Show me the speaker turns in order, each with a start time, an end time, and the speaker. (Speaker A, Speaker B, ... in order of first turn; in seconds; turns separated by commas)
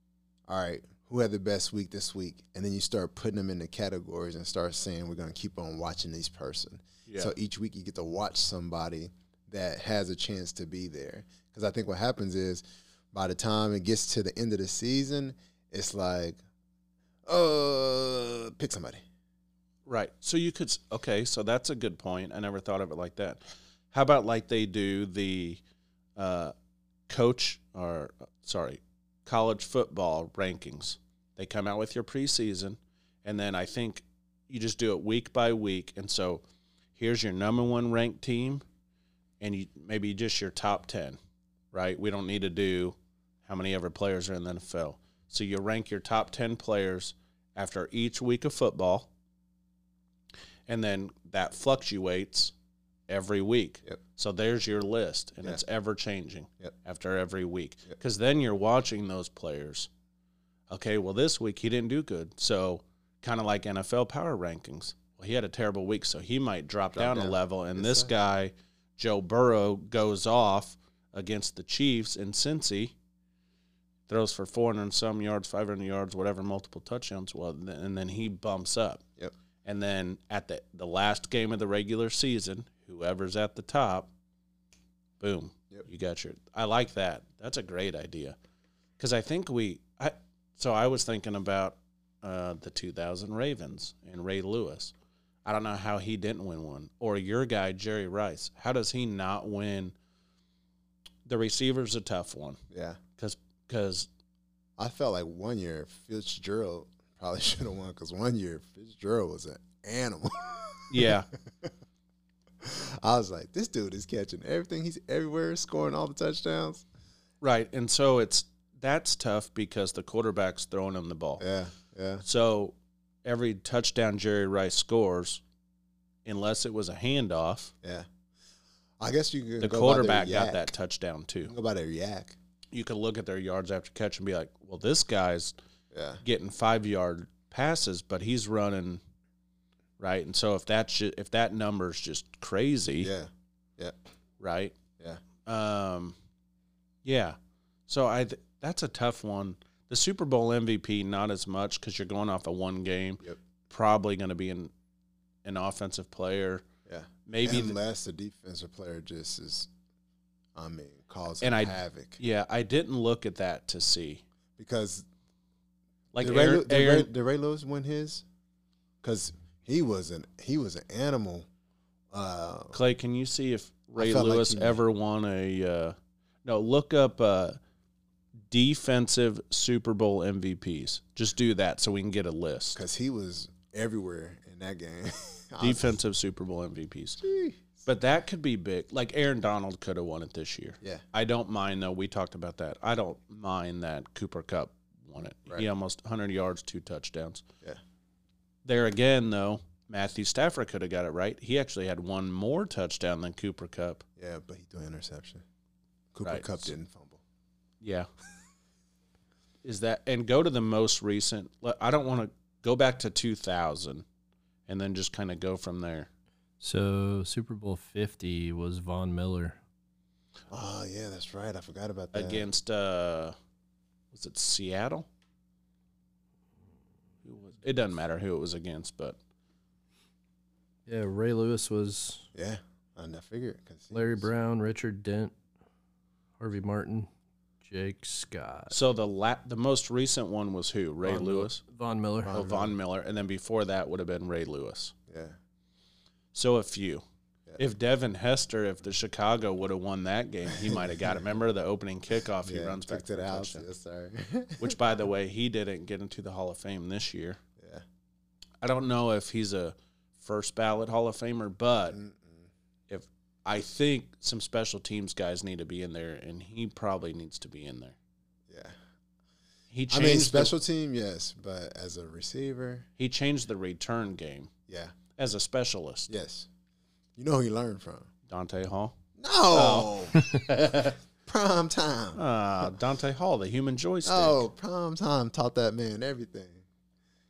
Speaker A: 0.5-16.4, Speaker B: 7.1-7.3, Speaker A: 17.2-19.0, Speaker B: 19.9-25.6, Speaker B: 26.1-26.5, Speaker B: 27.1-36.4, Speaker B: 37.0-38.6, Speaker B: 39.4-41.2, Speaker B: 41.7-49.1, Speaker B: 50.7-52.5, Speaker B: 53.1-59.9, Speaker B: 60.7-72.9, Speaker A: 66.9-68.1, Speaker B: 74.1-79.0, Speaker B: 79.6-84.1, Speaker B: 85.2-88.4, Speaker B: 89.0-94.9, Speaker B: 95.4-99.9, Speaker B: 101.2-102.6, Speaker A: 102.7-103.0, Speaker B: 103.2-104.1, Speaker A: 104.8-111.7, Speaker B: 110.9-111.3, Speaker A: 112.6-116.8, Speaker B: 117.4-121.4, Speaker A: 121.4-122.2, Speaker B: 122.2-125.4, Speaker B: 126.2-127.7, Speaker A: 129.0-130.7, Speaker B: 129.6-131.5, Speaker A: 131.4-132.4, Speaker B: 132.7-135.5, Speaker A: 135.9-136.2, Speaker B: 136.2-139.0, Speaker B: 140.0-143.1, Speaker A: 143.0-144.0, Speaker B: 144.4-144.8, Speaker B: 145.4-146.2, Speaker B: 147.0-154.7, Speaker B: 155.4-156.6, Speaker A: 156.8-159.7, Speaker B: 157.2-157.8, Speaker A: 160.5-162.2, Speaker B: 161.4-164.2, Speaker A: 164.6-165.0, Speaker B: 166.1-167.1, Speaker A: 166.2-168.2, Speaker A: 169.0-171.5, Speaker A: 172.1-172.8, Speaker B: 172.7-177.6, Speaker A: 174.0-174.8, Speaker B: 178.5-182.8, Speaker A: 182.8-186.0, Speaker B: 185.6-187.2, Speaker A: 187.2-187.8, Speaker B: 187.8-197.4, Speaker B: 198.6-204.0, Speaker A: 204.2-205.4, Speaker A: 206.1-207.2, Speaker B: 206.2-206.7, Speaker B: 207.8-208.1, Speaker B: 209.6-214.0, Speaker B: 214.7-216.1, Speaker C: 216.6-219.6, Speaker A: 220.5-222.5, Speaker B: 222.1-223.3, Speaker B: 224.1-225.1, Speaker B: 227.2-229.2, Speaker C: 230.9-232.3, Speaker A: 232.3-234.3, Speaker C: 233.9-235.3, Speaker C: 236.4-237.1, Speaker C: 237.6-238.8, Speaker B: 238.7-241.6, Speaker C: 241.0-242.7, Speaker A: 242.2-242.7, Speaker B: 242.3-244.9, Speaker A: 245.1-245.4, Speaker B: 246.3-247.0, Speaker B: 247.6-253.7, Speaker A: 250.5-251.2, Speaker A: 252.4-254.8, Speaker B: 254.6-257.4, Speaker A: 257.6-257.8, Speaker B: 258.6-262.0, Speaker A: 261.9-262.5, Speaker B: 262.9-267.9, Speaker A: 268.5-268.8, Speaker B: 269.7-270.5, Speaker A: 269.9-272.9, Speaker B: 273.0-274.5, Speaker A: 274.7-274.9, Speaker B: 275.2-276.1, Speaker A: 276.1-276.5, Speaker A: 277.1-278.1, Speaker B: 278.3-278.9, Speaker A: 279.2-282.2, Speaker B: 279.5-281.0, Speaker B: 282.1-284.4, Speaker A: 284.0-286.6